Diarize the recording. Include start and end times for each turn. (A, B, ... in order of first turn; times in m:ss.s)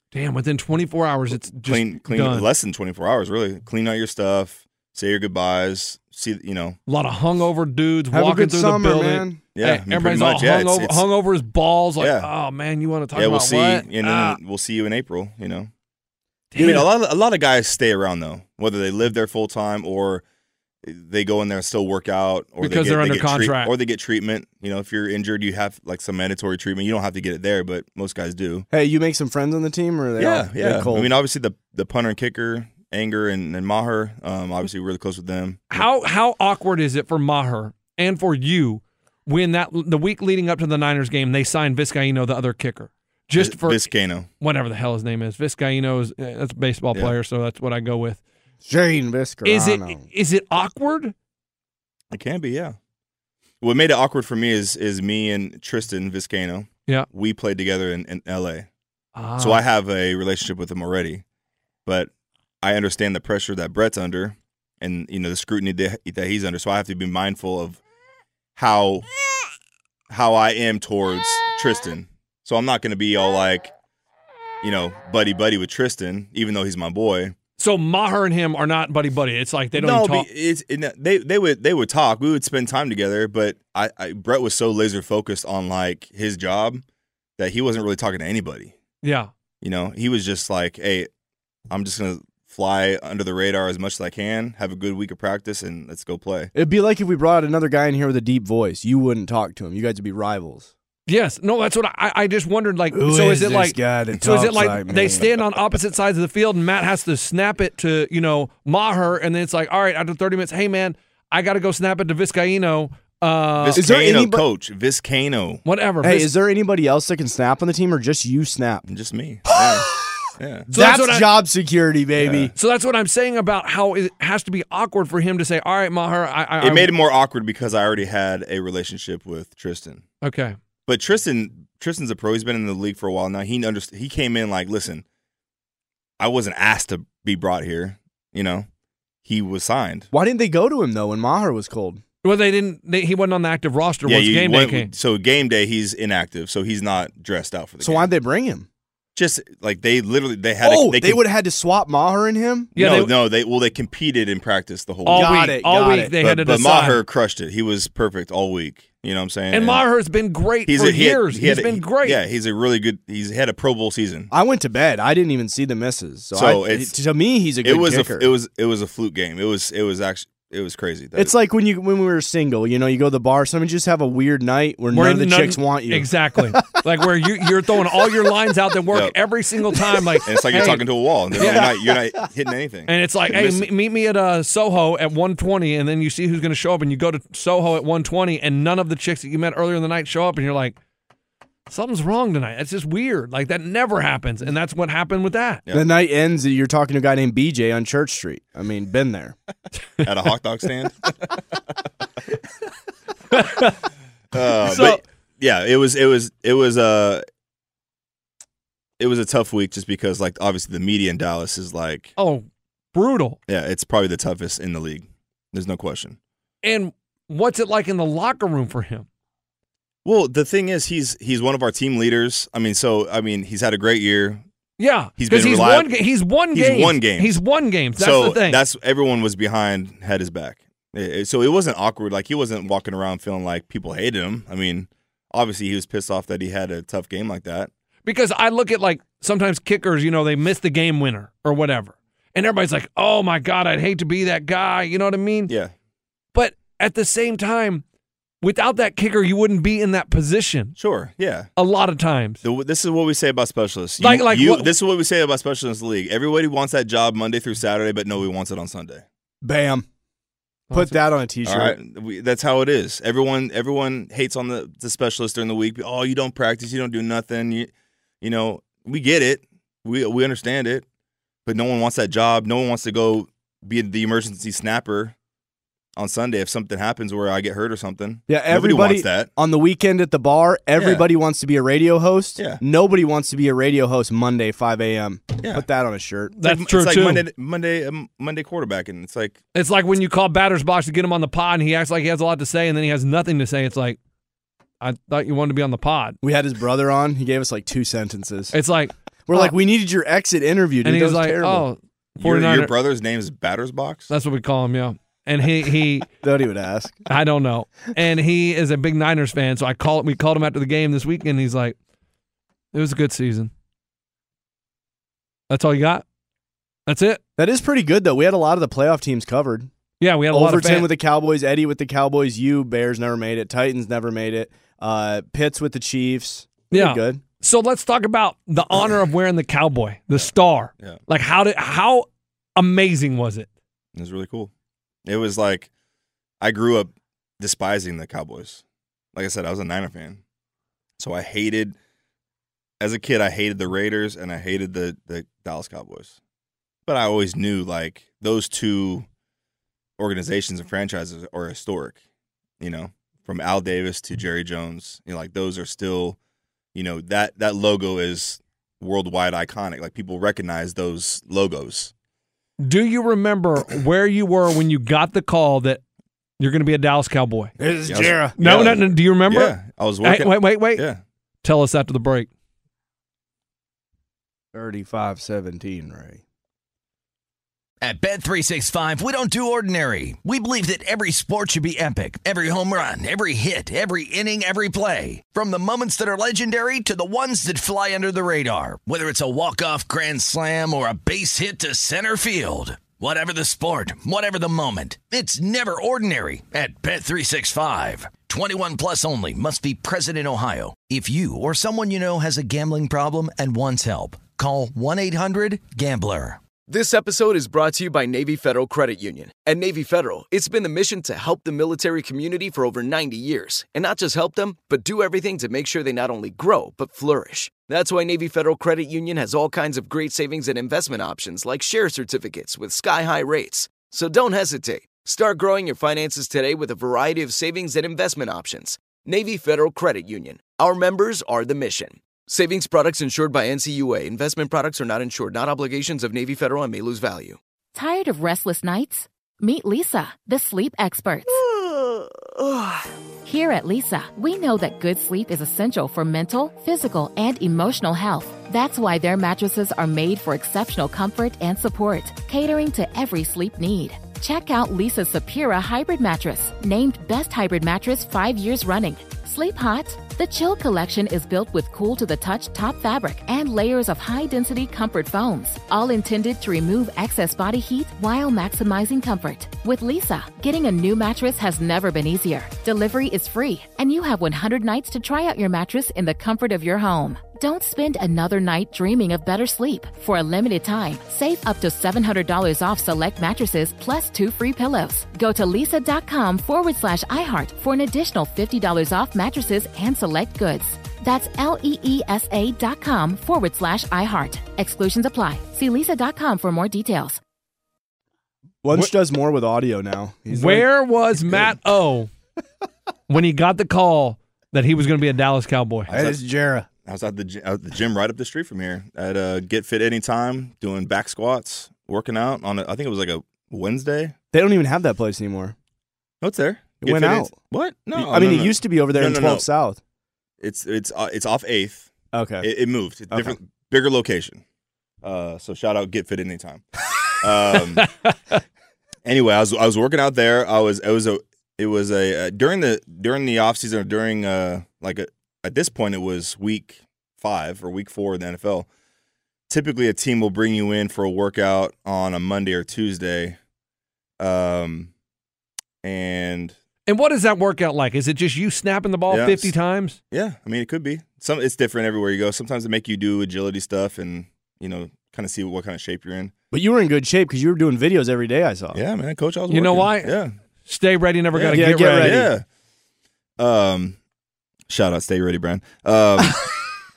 0:00.1-0:02.5 A
0:01.3-0:06.8 B
0:06.9-0:14.4 A
0:08.1-0:09.4 C
0:09.5-0:11.1 B
0:12.0-0:12.3 B
0:13.1-0:15.7 B
0:16.5-0:16.9 A
0:16.6-0:20.2 B
0:20.8-0:28.7 B
0:22.6-0:23.7 A
0:28.7-0:31.1 C
0:30.2-0:35.8 B
0:35.7-0:43.9 A
0:43.4-0:44.3 B
0:44.4-0:48.2 A
0:48.6-0:50.0 C
0:49.4-0:51.1 A
0:52.1-0:52.8 B
0:53.6-0:58.7 B
0:59.2-0:59.6 A
0:59.4-1:01.2 B
1:02.6-1:07.8 B
1:08.6-1:09.0 B
1:10.1-1:13.7 B
1:14.6-1:17.3 B
1:17.6-1:20.3 A
1:19.7-1:26.8 B
1:27.4-1:28.7 B
1:29.0-1:29.3 A
1:29.6-1:31.1 B
1:31.7-1:36.5 B
1:36.5-1:40.7 C
1:41.1-1:53.8 A
1:42.9-1:45.3 C
1:53.6-1:55.6 B
1:53.7-1:54.4 C
1:55.6-1:56.3 A
1:56.0-1:58.8 C
1:58.9-2:00.7 B
1:59.6-2:00.1 C
2:00.7-2:02.5 C
2:00.7-2:01.3 A
2:02.2-2:02.5 B
2:02.5-2:06.9 A
2:06.6-2:10.0 B
2:10.2-2:10.6 A
2:10.8-2:15.0 B
2:16.2-2:18.6 B
2:19.2-2:20.1 B
2:20.1-2:22.0 C
2:22.2-2:24.9 A
2:24.0-2:28.1 B
2:27.8-2:28.7 C
2:29.2-2:31.2 B
2:30.6-2:32.7 C
2:32.7-2:33.1 A
2:32.7-2:35.5 B
2:35.0-2:37.0 A
2:35.1-2:36.1 C
2:36.2-2:39.8 B
2:39.5-2:42.2 A
2:40.6-2:44.3 B
2:44.3-2:48.3 C
2:46.3-2:47.0 B
2:47.6-2:51.3 B
2:51.1-2:56.8 C
2:54.9-3:00.8 A
3:00.2-3:03.7 B
3:01.4-3:01.7 A
3:01.4-3:02.0 C
3:02.9-3:10.8 A
3:11.7-3:15.6 A
3:15.7-3:19.3 C
3:20.0-3:21.0 B
3:23.3-3:23.8 A
3:24.3-3:27.2 B
3:24.6-3:25.0 A
3:29.0-3:32.1 B
3:32.2-3:33.4 A
3:33.5-3:36.2 B
3:36.6-3:39.0 A
3:40.0-3:44.4 B
3:44.8-3:48.6 A
3:45.2-3:45.9 B
3:46.4-3:47.4 B
3:48.0-3:57.7 B
3:58.0-4:05.5 A
4:05.5-4:05.7 B
4:06.3-4:07.8 A
4:08.4-4:10.8 A
4:10.8-4:11.5 B
4:11.6-4:12.4 A
4:12.4-4:19.0 B
4:14.0-4:14.7 A
4:19.4-4:19.8 C
4:20.7-4:21.0 A
4:20.7-4:21.8 C
4:21.4-4:27.7 B
4:28.2-4:30.8 B
4:31.4-4:35.1 B
4:36.0-4:39.3 B
4:38.3-4:46.3 C
4:40.8-4:41.1 B
4:42.4-4:42.6 B
4:45.4-4:45.6 B
4:46.4-4:47.2 A
4:46.4-4:49.4 B
4:49.5-4:54.0 A
4:54.8-4:56.2 A
4:56.2-4:58.5 C
4:58.5-4:59.5 A
4:59.2-5:01.7 C
5:00.8-5:02.7 A
5:02.2-5:04.1 B
5:04.1-5:06.1 A
5:06.2-5:07.0 C
5:07.1-5:11.8 A
5:12.7-5:13.5 A
5:15.5-5:16.0 A
5:16.9-5:17.2 A
5:17.4-5:19.7 C
5:20.0-5:20.9 A
5:20.3-5:27.2 C
5:26.7-5:33.5 A
5:30.2-5:31.0 B
5:33.9-5:34.5 B
5:35.0-5:35.7 B
5:36.4-5:38.6 B
5:39.1-5:40.2 B
5:41.0-5:41.8 B
5:42.8-5:46.2 B
5:46.8-5:49.0 B
5:50.0-5:52.0 B
5:52.6-5:56.2 B
5:56.7-6:01.9 B
6:02.6-6:05.8 A
6:06.4-6:07.5 A
6:07.6-6:08.3 C
6:07.9-6:11.0 B
6:08.4-6:10.8 A
6:11.4-6:12.3 A
6:14.5-6:16.2 C
6:17.8-6:46.4 D
6:46.7-7:17.4 E
7:17.7-7:21.4 F
7:23.2-8:17.2 F
8:18.6-8:20.7 C
8:20.3-8:22.1 A
8:23.1-8:25.9 A
8:25.9-8:26.2 B
8:25.9-8:26.7 C
8:26.8-8:34.1 B
8:34.3-8:35.5 C
8:36.2-8:39.4 B
8:36.8-8:37.4 C
8:37.9-8:39.8 C
8:40.4-8:41.9 B
8:42.1-8:42.5 C
8:42.4-8:44.4 B
8:43.1-8:43.4 C
8:45.0-8:46.6 B
8:47.2-8:47.9 B
8:47.8-8:48.4 A
8:49.0-8:58.7 B
8:59.5-9:03.4 B
9:04.2-9:04.9 B
9:05.8-9:06.5 B
9:06.9-9:10.0 A
9:09.1-9:09.5 B
9:10.1-9:16.3 B
9:16.5-9:18.8 C
9:18.7-9:20.3 B
9:19.5-9:22.2 A
9:21.3-9:22.4 B
9:21.5-9:22.3 C
9:23.4-9:24.0 B
9:24.7-9:26.5 B